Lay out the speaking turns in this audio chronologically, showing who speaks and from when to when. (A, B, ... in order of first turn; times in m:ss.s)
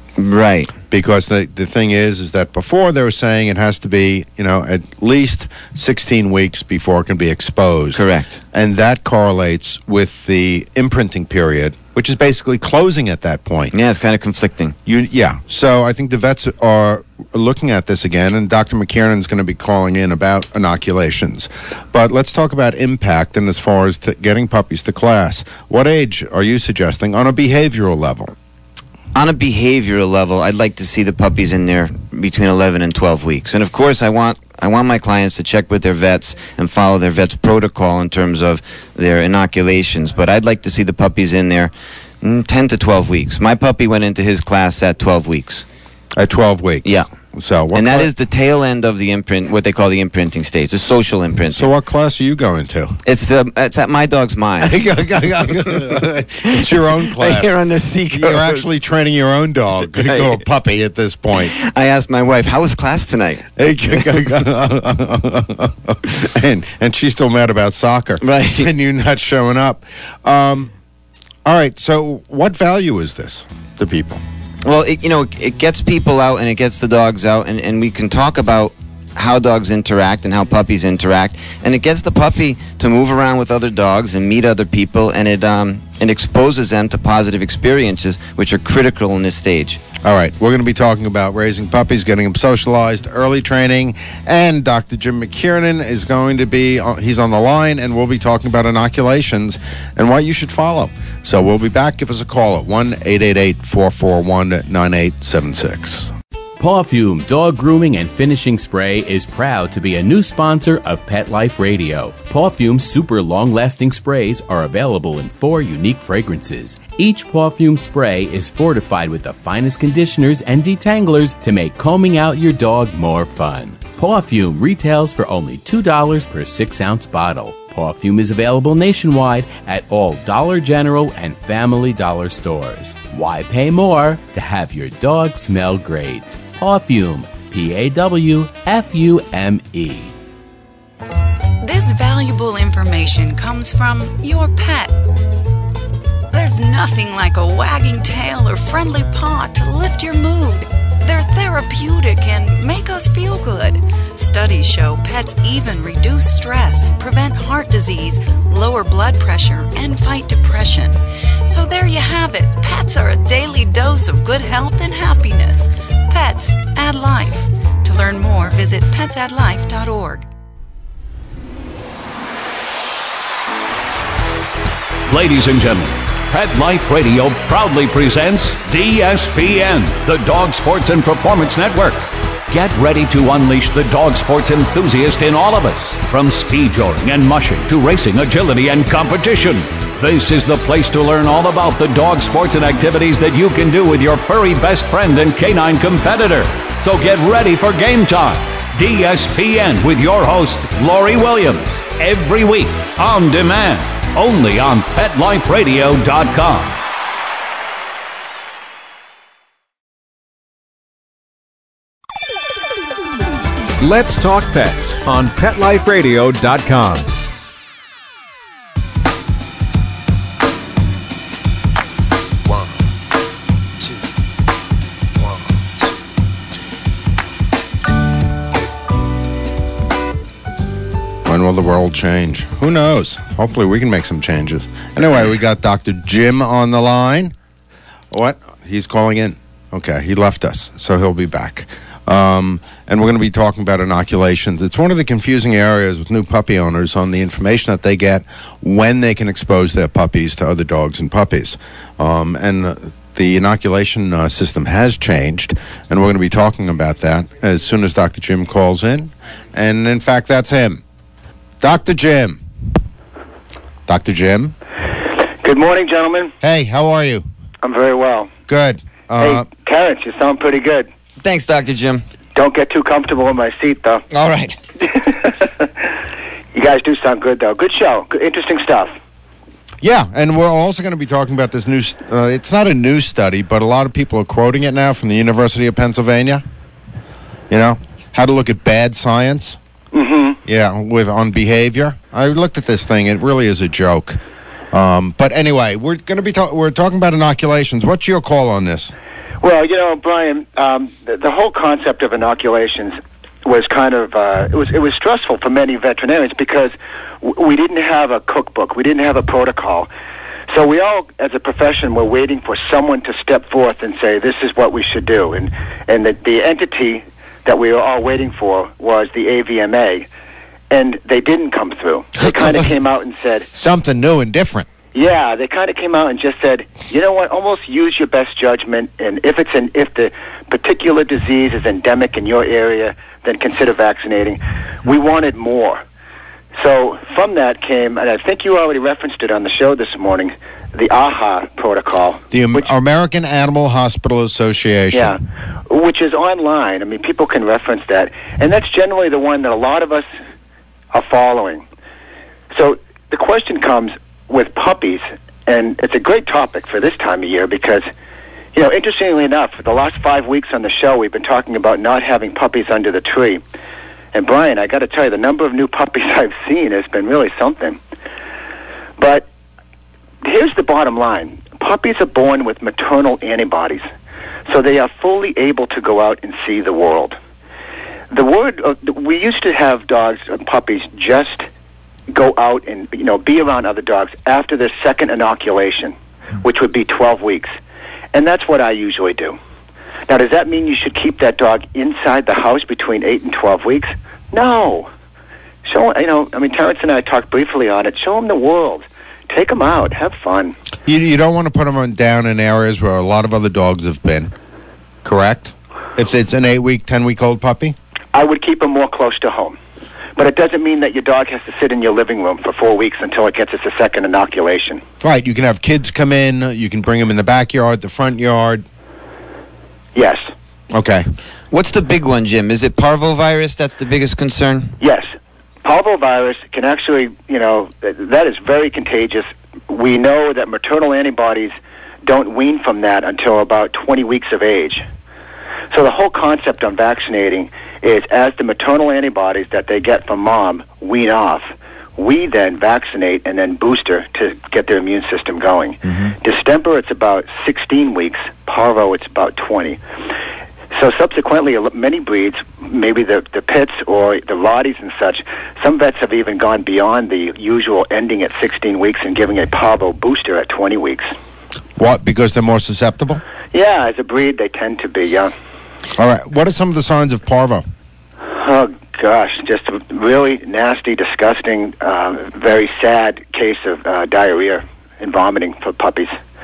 0:00.2-0:00.7 A
0:00.9-0:13.7 B
0:07.9-0:08.4 A
0:13.7-0:14.8 A
0:14.8-0:28.3 B
0:29.1-0:45.6 A
0:46.1-0:48.1 B
0:47.7-0:51.7 A
0:51.5-0:53.0 B
0:53.0-0:54.8 A
0:54.6-0:57.5 B
0:57.2-0:58.7 A
0:58.1-1:01.5 B
1:00.0-1:00.4 A
1:01.5-1:04.3 A
1:03.6-1:10.7 B
1:08.2-1:08.7 A
1:11.4-1:14.2 B
1:14.6-1:29.8 A
1:30.0-1:46.1 B
1:46.6-2:20.1 C
2:21.6-2:25.0 D
2:26.3-2:50.2 D
2:55.1-3:26.8 E
3:33.8-3:37.1 F
3:51.2-3:57.3 B
3:58.1-4:20.8 B
4:21.6-4:22.4 B
4:23.9-4:24.5 B
4:25.4-4:26.3 G
4:26.4-4:27.2 B
4:27.6-4:28.3 G
4:28.5-4:29.5 B
4:29.2-4:30.9 G
4:31.2-4:32.0 A
4:32.3-4:34.0 G
4:34.1-4:34.6 A
4:34.8-4:35.7 G
4:36.5-4:38.9 G
4:39.8-4:46.4 B
4:47.5-4:49.6 B
4:49.9-4:50.4 G
4:50.4-4:58.9 B
4:59.4-5:09.9 G
5:10.5-5:20.0 G
5:20.7-5:23.5 G
5:22.2-5:22.7 B
5:23.5-5:24.7 B
5:24.9-5:35.8 G
5:36.6-5:42.7 G
5:42.3-5:45.2 B
5:44.9-5:50.1 G
5:50.9-5:51.6 G
5:52.5-5:57.8 G
5:58.5-6:03.4 G
6:04.1-6:07.8 G
6:09.0-6:09.3 G
6:10.2-6:13.8 G
6:14.5-6:17.2 G
6:18.1-6:21.5 G
6:22.1-6:27.5 G
6:28.1-6:29.4 G
6:30.1-6:34.9 G
6:35.6-6:40.6 G
6:40.8-6:44.3 B
6:45.0-6:47.8 B
6:48.1-6:49.6 G
6:50.2-6:54.8 G
6:55.0-6:58.6 B
6:59.9-7:00.3 G
7:00.7-7:01.0 B
7:01.5-7:04.7 A
7:04.8-7:05.1 G
7:05.6-7:11.5 G
7:12.0-7:14.8 G
7:15.7-7:29.8 G
7:25.8-7:26.1 A
7:30.7-7:41.1 G
7:41.8-7:43.2 B
7:43.5-7:45.3 G
7:45.9-7:47.6 B
7:48.3-7:56.1 G